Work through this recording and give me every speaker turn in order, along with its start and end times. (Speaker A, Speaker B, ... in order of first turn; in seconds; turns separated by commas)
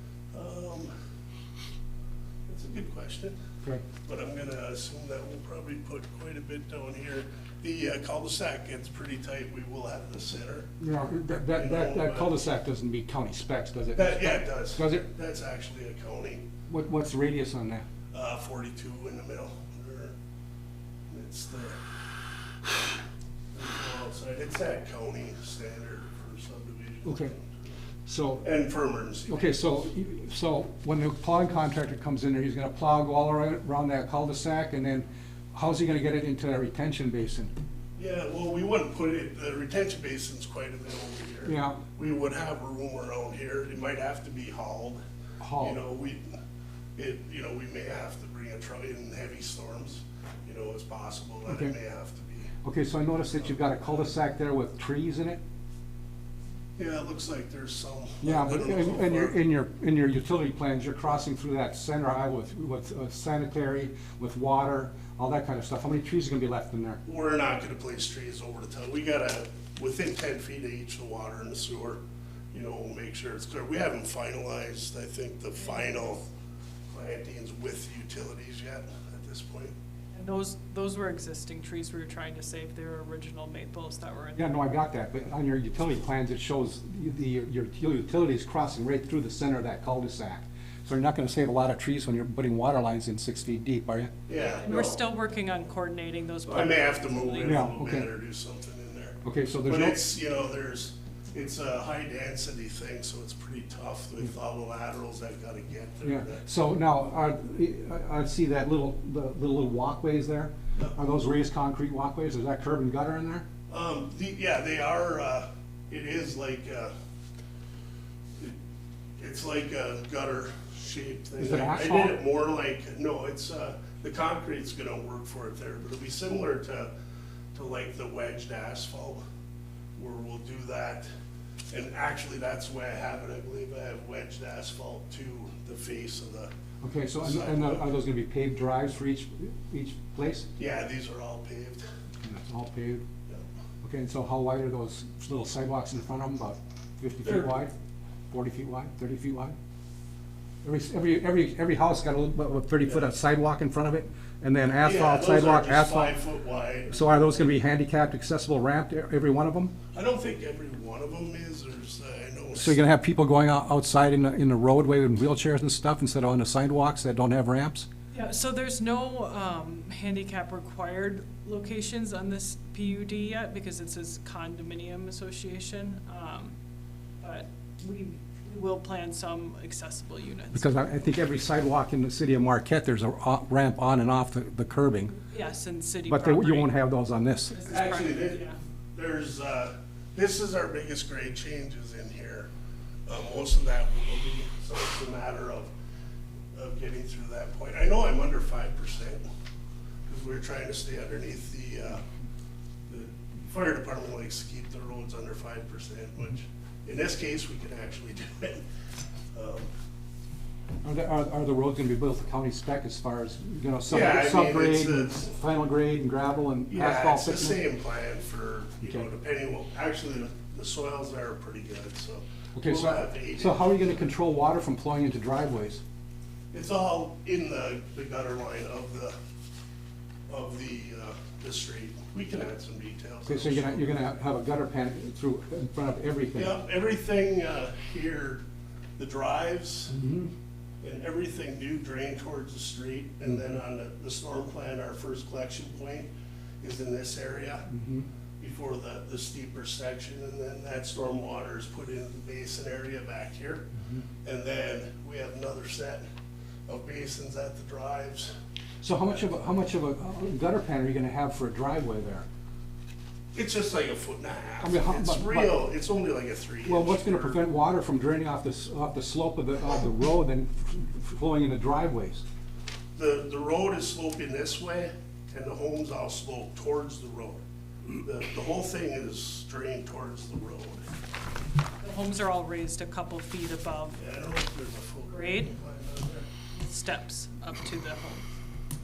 Speaker A: 0.3-0.9, Speaker A: 2.5-3.3, Speaker A: 4.0-10.7, Speaker B: 10.8-15.1, Speaker A: 11.5-12.4, Speaker A: 13.9-16.4, Speaker B: 16.7-17.9, Speaker A: 18.1-20.1, Speaker A: 21.1-21.8, Speaker A: 23.5-27.7, Speaker B: 27.1-27.3, Speaker B: 28.1-28.4, Speaker A: 28.4-29.8, Speaker B: 29.3-37.5, Speaker A: 38.0-45.0, Speaker B: 41.4-41.8, Speaker B: 45.4-45.8, Speaker A: 45.6-46.4, Speaker A: 47.0-52.5, Speaker B: 51.5-51.7, Speaker B: 52.6-55.4, Speaker A: 56.8-59.4, Speaker B: 58.2-67.0, Speaker A: 67.0-72.0, Speaker A: 72.5-76.2, Speaker A: 76.9-79.7, Speaker C: 80.1-84.5, Speaker B: 84.3-94.1, Speaker A: 94.3-95.0, Speaker C: 94.3-97.8, Speaker A: 96.5-106.4, Speaker B: 97.4-98.0, Speaker B: 99.2-100.0, Speaker B: 106.0-113.4, Speaker A: 113.7-116.9, Speaker A: 119.2-126.9, Speaker B: 121.4-122.2, Speaker A: 127.5-129.2, Speaker A: 130.0-131.1, Speaker A: 131.7-136.5, Speaker B: 136.8-140.5, Speaker A: 137.2-137.9, Speaker A: 140.6-141.8, Speaker B: 142.2-143.0, Speaker B: 143.8-147.7, Speaker A: 147.2-147.5, Speaker B: 148.3-149.5, Speaker B: 150.6-156.2, Speaker A: 152.8-153.2, Speaker A: 154.8-157.5, Speaker B: 156.9-159.7, Speaker A: 159.9-162.8, Speaker B: 162.6-167.9, Speaker C: 168.1-176.5, Speaker C: 177.2-180.7, Speaker B: 180.5-185.2, Speaker C: 185.2-186.7, Speaker B: 186.1-187.6, Speaker C: 187.5-188.6, Speaker A: 187.6-192.5, Speaker A: 193.1-195.7, Speaker A: 196.5-199.2, Speaker A: 200.1-202.0, Speaker A: 202.9-208.6, Speaker A: 209.3-209.7, Speaker B: 210.8-217.6, Speaker A: 213.9-215.3, Speaker A: 216.7-223.9, Speaker B: 222.5-225.8, Speaker A: 226.5-229.1, Speaker A: 230.3-234.0, Speaker B: 233.2-236.6, Speaker A: 236.3-238.4, Speaker A: 239.0-239.9, Speaker B: 239.9-240.3, Speaker A: 240.8-246.1, Speaker A: 246.6-247.7, Speaker B: 247.7-248.1, Speaker A: 248.4-253.7, Speaker A: 254.2-256.0, Speaker A: 256.7-258.3, Speaker B: 258.8-262.2, Speaker A: 263.3-267.4, Speaker B: 264.6-265.5, Speaker B: 266.6-272.2, Speaker A: 272.9-277.4, Speaker A: 278.0-280.8, Speaker C: 281.8-284.0, Speaker A: 284.0-286.3, Speaker C: 285.1-285.5, Speaker C: 286.5-288.2